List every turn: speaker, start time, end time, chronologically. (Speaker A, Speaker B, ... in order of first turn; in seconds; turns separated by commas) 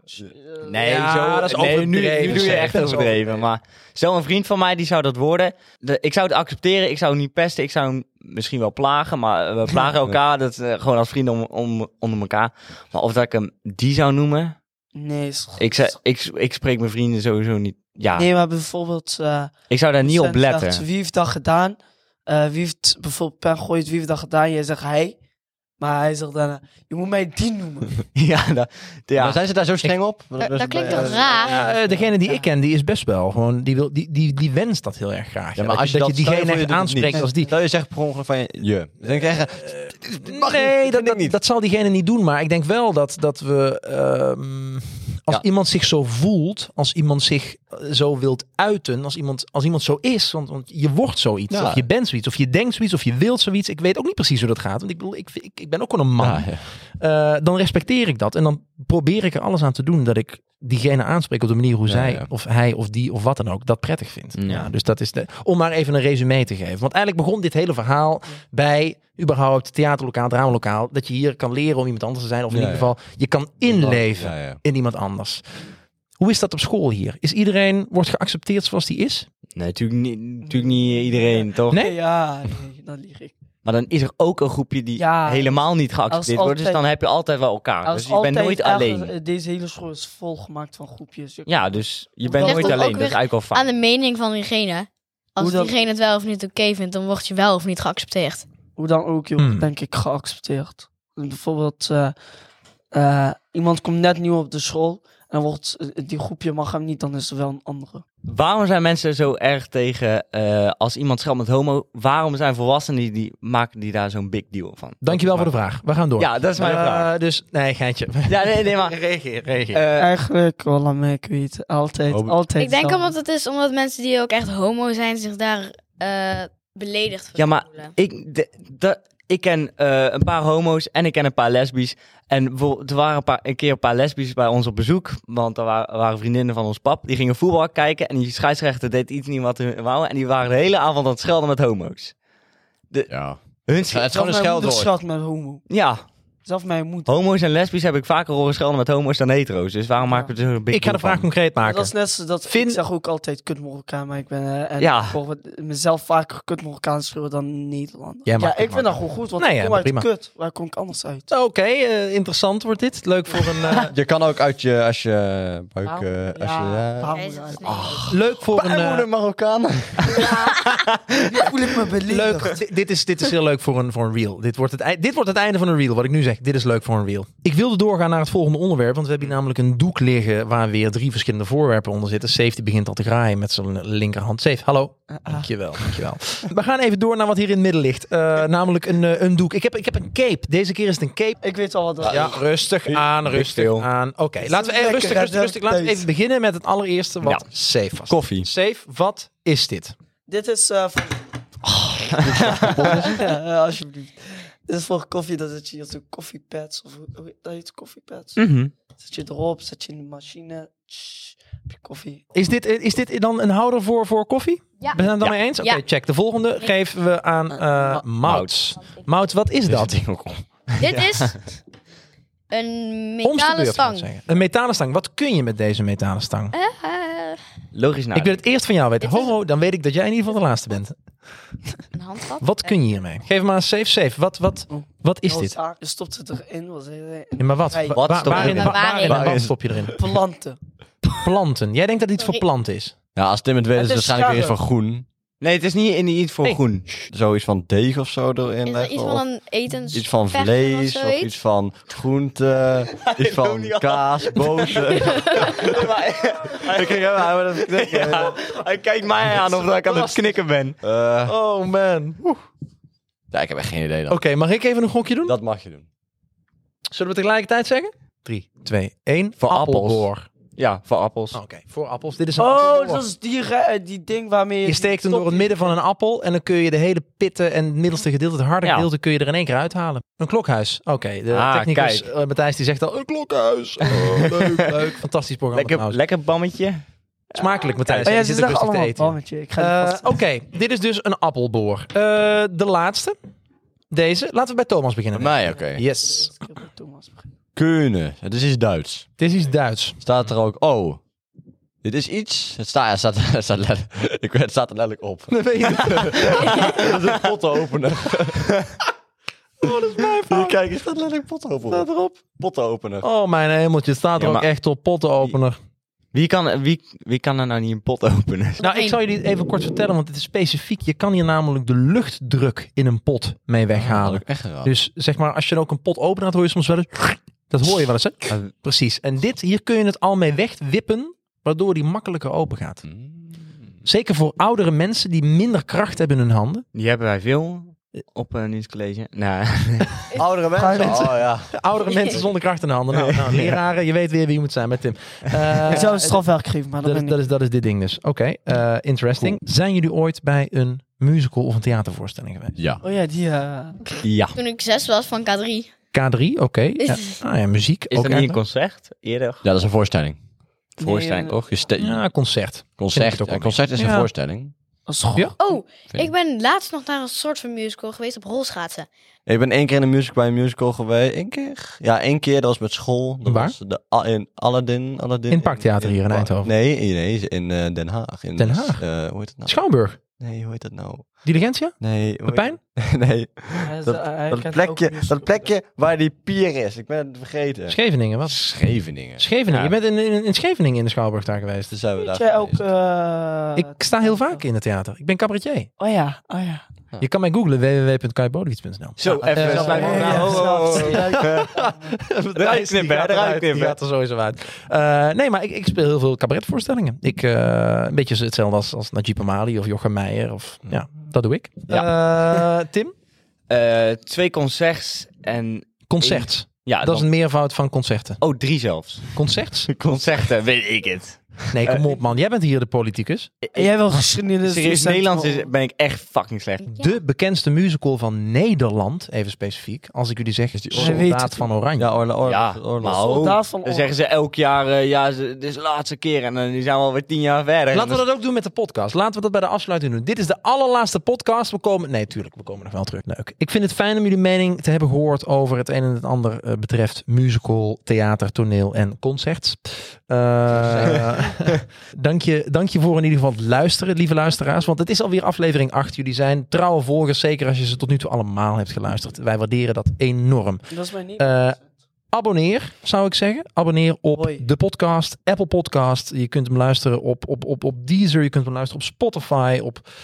Speaker A: 0.2-0.6, Speaker B: 0.6-14.6, Speaker C: 0.8-3.2, Speaker D: 2.3-2.8, Speaker A: 14.9-15.9, Speaker B: 15.6-18.3, Speaker A: 18.1-25.1, Speaker B: 19.7-20.9, Speaker A: 25.8-28.1, Speaker B: 28.1-29.4, Speaker D: 29.2-31.4, Speaker E: 30.4-31.7, Speaker A: 31.2-32.4, Speaker C: 31.3-37.5, Speaker D: 35.6-41.4, Speaker C: 39.6-75.4, Speaker D: 51.5-51.9, Speaker D: 56.2-56.7, Speaker D: 61.9-62.3, Speaker B: 64.4-64.7, Speaker D: 72.5-72.9, Speaker D: 73.7-74.6, Speaker C: 76.2-79.3, Speaker B: 79.5-81.8, Speaker A: 80.5-83.3, Speaker B: 83.7-89.1, Speaker A: 85.0-86.8, Speaker A: 87.8-93.0, Speaker B: 91.5-93.7, Speaker E: 92.4-98.5, Speaker A: 95.4-95.8, Speaker A: 98.8-102.2, Speaker C: 99.4-99.7, Speaker A: 102.9-108.0, Speaker B: 108.3-115.5, Speaker C: 115.0-119.8, Speaker B: 116.2-117.1, Speaker B: 118.3-119.0, Speaker B: 119.7-120.1, Speaker A: 120.0-123.1, Speaker D: 122.1-122.4, Speaker E: 122.6-127.9, Speaker B: 127.3-142.1, Speaker D: 143.1-144.9, Speaker B: 143.7-144.1, Speaker A: 144.1-145.6, Speaker B: 145.7-146.0, Speaker A: 146.4-147.1, Speaker B: 147.1-151.3, Speaker A: 150.0-150.3, Speaker C: 150.7-151.9, Speaker A: 151.6-161.3, Speaker C: 152.4-152.8, Speaker B: 154.8-155.2, Speaker C: 158.3-160.1, Speaker C: 161.3-163.9, Speaker D: 163.7-170.3, Speaker E: 165.8-168.1, Speaker A: 166.4-167.8, Speaker C: 168.0-169.1, Speaker E: 170.1-170.8, Speaker A: 171.1-172.6, Speaker C: 172.1-191.4, Speaker A: 185.2-185.5, Speaker A: 191.4-192.3, Speaker C: 192.0-199.9, Speaker B: 192.8-193.9, Speaker A: 194.4-196.1, Speaker B: 198.1-198.5, Speaker A: 200.3-201.3, Speaker B: 201.7-202.7, Speaker D: 202.2-203.1, Speaker A: 202.5-208.4, Speaker B: 208.4-208.7, Speaker A: 209.0-212.2, Speaker C: 212.3-220.0, Speaker E: 215.6-215.8, Speaker B: 218.2-218.6, Speaker B: 219.7-221.4, Speaker E: 220.8-221.4, Speaker E: 222.5-224.1, Speaker C: 223.2-226.6, Speaker E: 226.5-227.4, Speaker B: 227.7-228.4, Speaker C: 228.1-231.0, Speaker E: 229.0-229.3, Speaker E: 231.9-232.7, Speaker C: 232.4-235.6, Speaker A: 234.7-238.0, Speaker C: 237.4-240.0, Speaker B: 237.9-238.9, Speaker D: 238.3-239.6, Speaker E: 238.4-239.4, Speaker A: 239.9-240.6, Speaker C: 241.2-242.9, Speaker D: 243.2-245.1, Speaker A: 243.7-244.6, Speaker B: 245.4-246.9, Speaker C: 246.4-247.0, Speaker D: 247.1-249.2, Speaker E: 248.7-251.3, Speaker D: 249.9-255.6, Speaker B: 253.0-260.8, Speaker E: 255.1-255.5, Speaker D: 256.7-258.4, Speaker C: 259.8-260.2, Speaker D: 260.8-261.3, Speaker C: 261.3-262.4, Speaker D: 263.3-264.2, Speaker C: 264.1-265.4, Speaker D: 265.2-265.9, Speaker C: 266.9-270.3, Speaker B: 269.4-270.0, Speaker D: 269.5-270.0, Speaker B: 270.6-271.4, Speaker C: 271.3-273.1, Speaker A: 272.4-275.7, Speaker C: 274.6-286.0, Speaker B: 278.6-278.9, Speaker B: 281.3-282.1, Speaker B: 283.9-284.6, Speaker B: 285.5-286.8, Speaker C: 287.3-293.2, Speaker B: 287.4-288.1, Speaker A: 288.0-290.2, Speaker C: 293.9-296.3, Speaker D: 295.1-295.8, Speaker A: 296.0-297.3, Speaker D: 297.6-299.1, Speaker C: 299.2-300.0, Speaker D: 300.0-301.0, Speaker D: 301.8-308.6, Speaker C: 305.3-306.9, Speaker C: 309.6-310.6, Speaker D: 310.2-313.1, Speaker C: 311.7-312.2, Speaker C: 313.0-315.6, Speaker B: 314.2-314.5, Speaker B: 316.1-318.6, Speaker E: 318.6-319.0, Speaker C: 318.6-332.8, Speaker D: 323.8-324.7, Speaker D: 332.9-333.2, Speaker C: 333.9-336.6, Speaker B: 336.7-340.0, Speaker D: 340.1-341.5, Speaker A: 340.6-341.1, Speaker C: 340.8-346.2, Speaker B: 342.9-343.6, Speaker A: 345.7-347.2, Speaker C: 346.8-352.6, Speaker D: 352.6-352.8, Speaker A: 352.8-354.0, Speaker B: 354.0-354.4, Speaker E: 354.4-355.7, Speaker C: 355.9-358.4, Speaker E: 356.8-357.2, Speaker B: 357.9-359.4, Speaker D: 359.4-360.2, Speaker B: 360.8-361.5, Speaker A: 360.8-361.4, Speaker D: 361.5-362.0, Speaker C: 361.8-364.1, Speaker D: 362.8-364.5, Speaker A: 364.9-365.4, Speaker E: 365.4-368.9, Speaker D: 369.3-389.7, Speaker C: 373.2-373.6, Speaker C: 375.3-376.5, Speaker C: 378.4-380.0, Speaker C: 381.2-382.6, Speaker A: 383.6-385.5, Speaker C: 387.7-388.5, Speaker C: 389.2-391.7, Speaker D: 391.7-392.7, Speaker A: 392.0-394.4, Speaker C: 393.6-395.7, Speaker A: 395.8-396.6, Speaker C: 397.0-412.9, Speaker B: 399.0-401.5, Speaker D: 399.2-399.6, Speaker A: 399.4-401.9, Speaker B: 402.3-403.8, Speaker B: 411.7-412.5, Speaker B: 413.5-417.1, Speaker C: 415.9-418.2, Speaker B: 418.2-422.0, Speaker C: 419.1-419.8, Speaker C: 421.5-423.3, Speaker B: 423.4-423.9, Speaker A: 423.6-425.5, Speaker B: 424.4-426.7, Speaker C: 426.7-431.9, Speaker D: 430.6-431.1, Speaker A: 430.8-431.5, Speaker D: 431.8-433.0, Speaker B: 432.2-438.0, Speaker A: 432.9-434.0, Speaker C: 437.7-460.7, Speaker D: 450.5-451.5, Speaker A: 460.7-461.7, Speaker C: 461.2-461.6, Speaker C: 462.1-469.9, Speaker A: 464.1-464.4